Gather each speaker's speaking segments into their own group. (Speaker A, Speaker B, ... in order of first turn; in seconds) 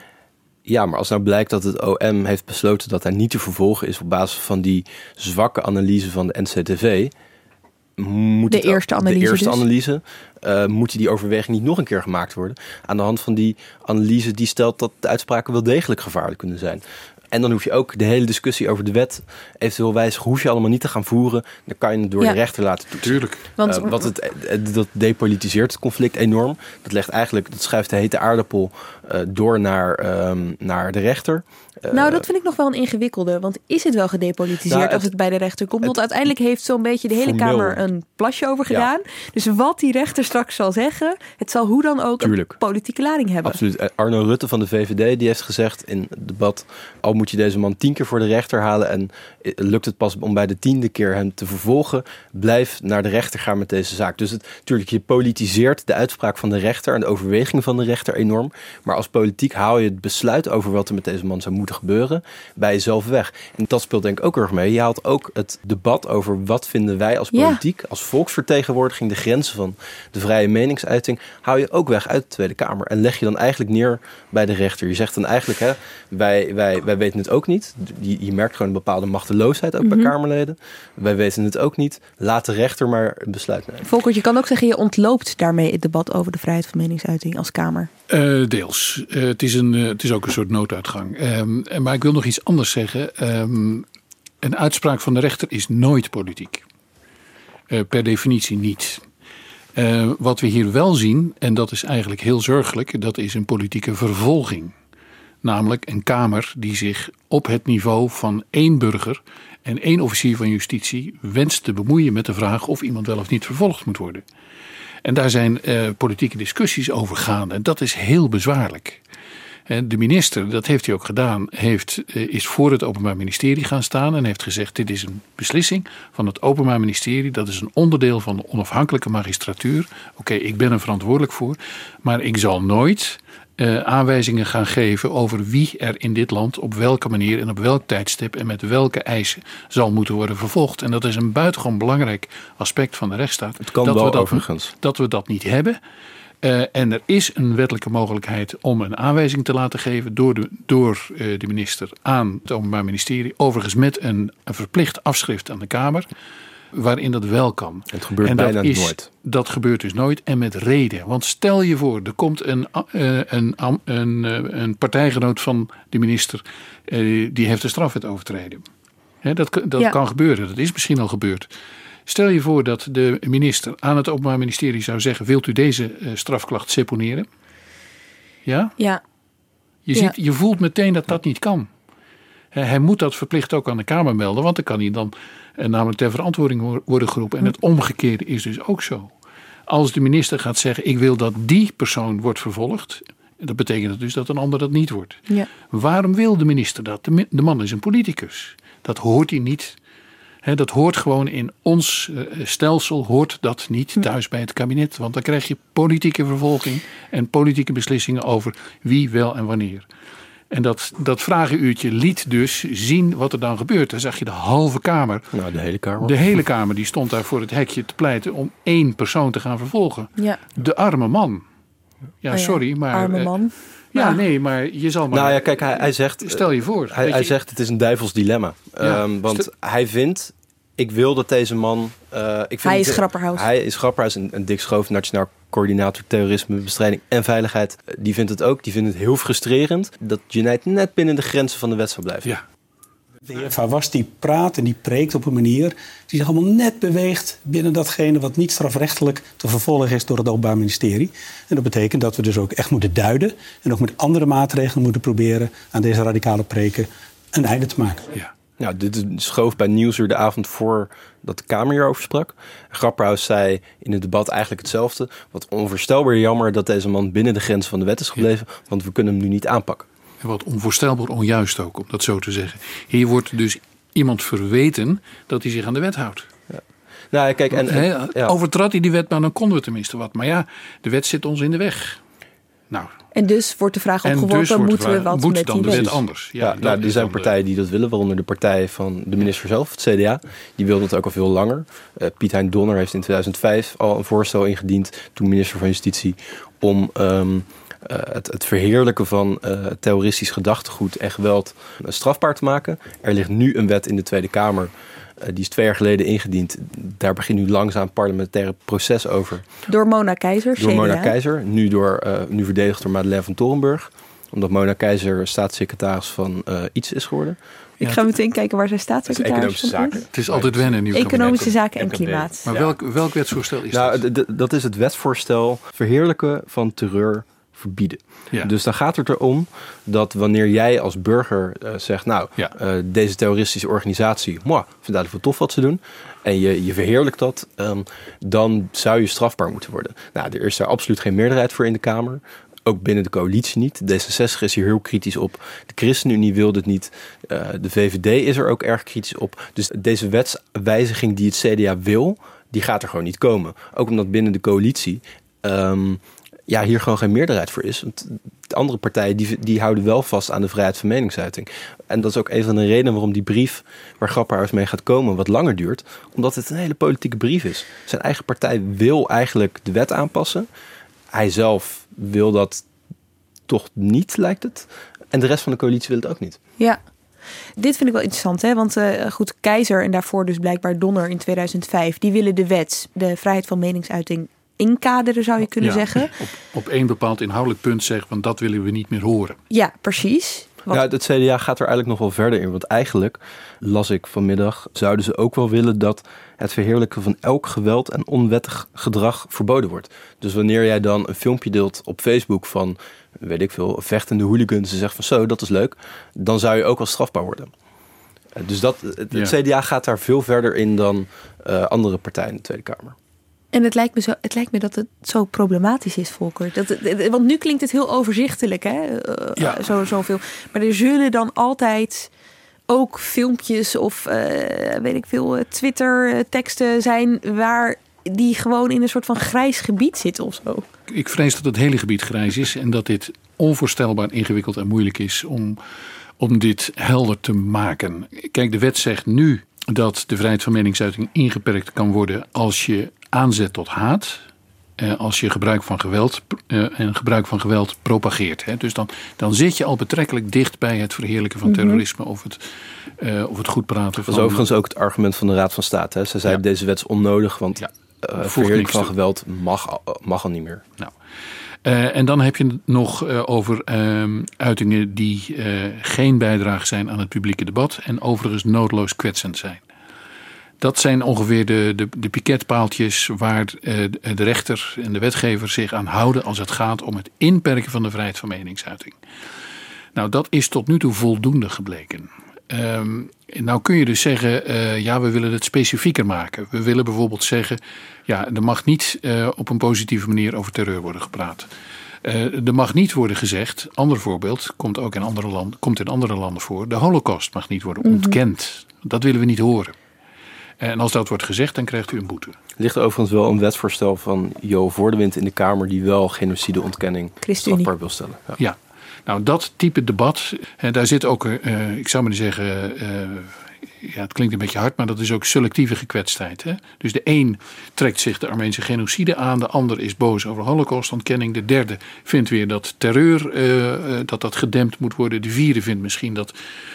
Speaker A: 0.7-7.1, 8.0-32.2, 34.7-35.1, 37.1-37.8, 42.2-42.6, 43.4-83.8, 143.7-144.7, 157.9-159.1, 215.3-216.1, 225.1-242.3, 258.6-269.9, 276.5-278.3, 285.6-304.7, 305.2-309.4, 310.6-317.4, 319.1-322.8, 323.7-370.5, 371.1-372.6, 373.5-376.4, 390.7-407.5, 408.4-412.9, 454.1-460.6, 502.6-508.4
Speaker B: 8.5-9.6, 23.6-24.1, 31.9-43.6, 67.3-67.6, 79.8-80.1, 83.8-87.9, 222.3-224.2, 232.6-233.5, 283.1-285.9, 309.7-311.1, 317.8-320.0, 320.9-322.4, 377.6-386.1, 389.5-390.8, 413.5-422.1, 422.7-430.6, 451.4-451.8, 497.8-498.2, 507.2-507.7
Speaker C: 23.0-23.4, 88.1-93.8, 94.4-96.6, 97.7-99.0, 99.8-104.7, 105.4-114.2, 115.0-119.0, 119.7-145.8, 146.4-156.1, 156.7-168.6, 169.2-171.5, 172.1-177.2, 178.4-178.8, 179.8-181.7, 182.5-189.1, 189.7-199.8, 200.4-209.8, 210.5-215.3, 216.0-221.4, 222.2-223.3, 223.9-227.3, 228.8-229.4, 270.2-276.3, 277.5-282.0, 284.0-287.3, 320.1-321.5, 322.4-324.0, 385.6-389.4, 419.4-419.6, 430.9-435.6, 436.2-444.2, 444.8-452.4, 453.0-454.4, 457.6-458.9, 461.6-469.6, 470.6-479.0, 479.9-491.5, 492.0-499.7, 500.6-502.4, 508.4-526.3
Speaker D: 243.3-258.1